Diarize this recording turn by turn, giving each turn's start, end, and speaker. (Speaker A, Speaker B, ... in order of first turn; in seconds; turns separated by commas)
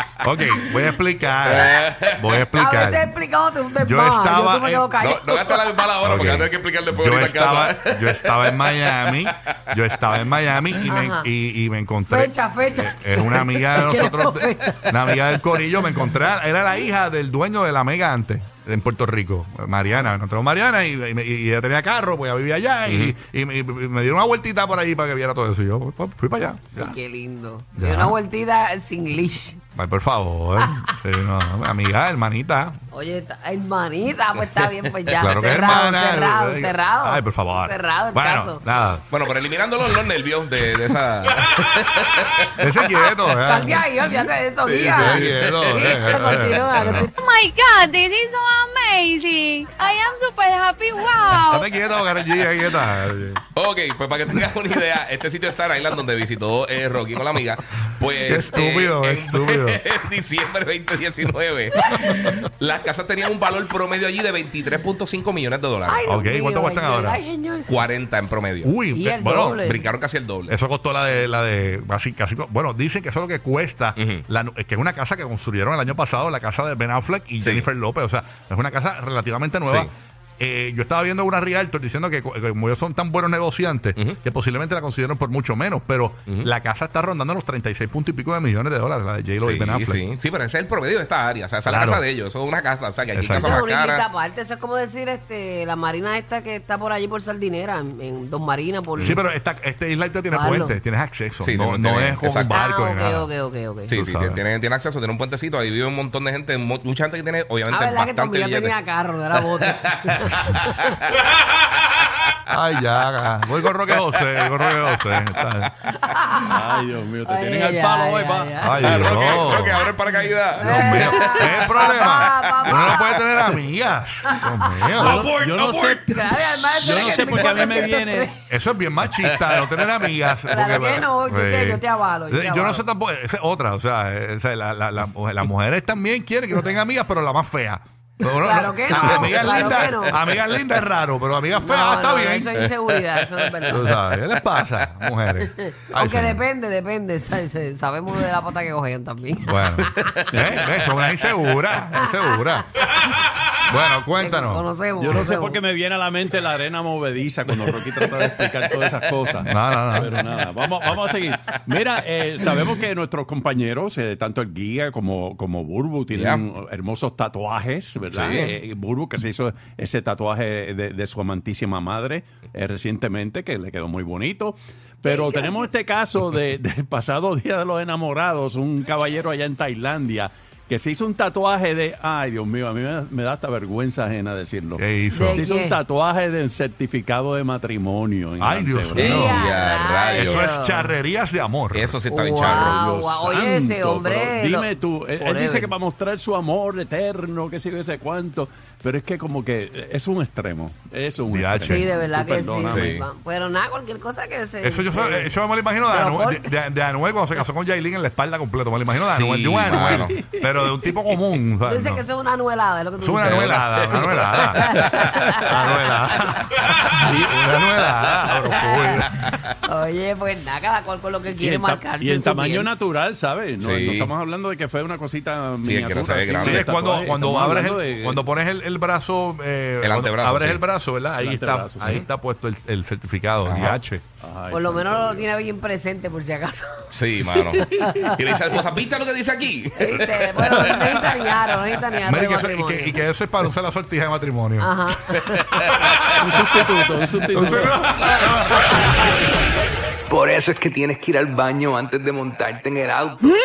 Speaker A: 0.2-3.1, Speaker B: 1.4-2.5, Speaker C: 2.5-5.8, Speaker A: 3.8-4.9, Speaker B: 5.0-10.3, Speaker A: 6.0-27.0, Speaker C: 10.9-11.3, Speaker C: 12.1-16.0, Speaker B: 22.9-23.1, Speaker C: 26.7-29.6, Speaker A: 27.8-28.2, Speaker A: 29.8-32.8, Speaker C: 30.6-30.9, Speaker C: 32.9-38.6, Speaker A: 35.1-39.0, Speaker B: 39.1-42.7, Speaker A: 42.6-43.9, Speaker C: 42.9-47.1, Speaker B: 44.6-47.0, Speaker A: 44.8-47.1, Speaker D: 47.1-51.7, Speaker A: 51.5-53.4, Speaker B: 53.5-66.0, Speaker A: 58.2-59.8, Speaker A: 61.9-62.4, Speaker C: 65.9-67.8, Speaker A: 66.0-67.2, Speaker B: 67.7-68.7, Speaker A: 68.6-69.6, Speaker C: 68.9-69.9, Speaker B: 69.6-70.5, Speaker A: 70.5-90.0, Speaker B: 74.0-74.2, Speaker B: 77.4-77.7, Speaker B: 79.7-79.9, Speaker B: 89.4-94.0, Speaker A: 91.7-92.0, Speaker A: 93.1-93.6, Speaker C: 93.3-99.2, Speaker A: 99.0-103.3, Speaker C: 100.3-100.8, Speaker B: 101.4-102.6, Speaker C: 102.5-103.9, Speaker B: 103.9-108.8, Speaker A: 103.9-104.4, Speaker C: 107.7-111.0, Speaker B: 109.3-110.5, Speaker A: 112.5-115.7, Speaker B: 113.9-115.7, Speaker C: 116.0-116.6, Speaker E: 116.4-119.4, Speaker C: 117.2-119.1, Speaker A: 118.6-119.8, Speaker B: 118.8-120.8, Speaker C: 119.8-123.6, Speaker A: 120.6-125.3, Speaker E: 120.6-121.7, Speaker B: 121.7-123.0, Speaker C: 124.2-128.3, Speaker E: 125.0-128.3, Speaker A: 128.5-142.6, Speaker B: 129.2-130.7, Speaker C: 130.5-132.8, Speaker C: 138.2-140.2, Speaker B: 138.9-140.6, Speaker C: 141.6-144.0, Speaker B: 143.1-143.8, Speaker A: 143.7-146.4, Speaker B: 144.6-144.9, Speaker C: 145.6-150.1, Speaker A: 149.4-152.7, Speaker B: 149.9-150.2, Speaker C: 151.9-152.6, Speaker A: 153.7-154.7, Speaker C: 154.2-155.6, Speaker E: 155.0-189.4, Speaker A: 159.5-160.1, Speaker B: 166.1-166.4, Speaker B: 168.1-168.6, Speaker C: 175.1-175.6, Speaker A: 184.8-185.4, Speaker C: 185.1-185.8, Speaker A: 188.4-189.4, Speaker B: 188.9-190.5, Speaker C: 189.0-190.9, Speaker A: 190.2-192.0, Speaker B: 191.7-192.8, Speaker C: 192.1-195.7, Speaker E: 192.4-203.0, Speaker A: 201.3-201.9, Speaker C: 201.6-206.5, Speaker B: 202.7-203.1, Speaker A: 204.6-212.1, Speaker B: 208.9-210.2, Speaker C: 211.7-215.8, Speaker A: 213.0-214.7, Speaker B: 213.3-214.8, Speaker A: 215.4-219.2, Speaker E: 217.0-217.4, Speaker C: 218.5-219.1, Speaker B: 219.1-219.5, Speaker C: 219.7-222.7, Speaker E: 221.3-228.3, Speaker B: 223.6-224.1, Speaker B: 225.6-226.7, Speaker A: 226.4-234.0, Speaker B: 229.8-230.6, Speaker E: 231.2-232.1, Speaker B: 233.5-233.8, Speaker E: 234.2-235.3, Speaker C: 234.5-238.2, Speaker B: 236.9-241.4, Speaker C: 239.8-243.1, Speaker A: 242.0-244.8, Speaker C: 244.6-245.6, Speaker B: 245.5-246.0, Speaker E: 246.2-247.9, Speaker A: 247.3-248.6, Speaker F: 250.1-253.3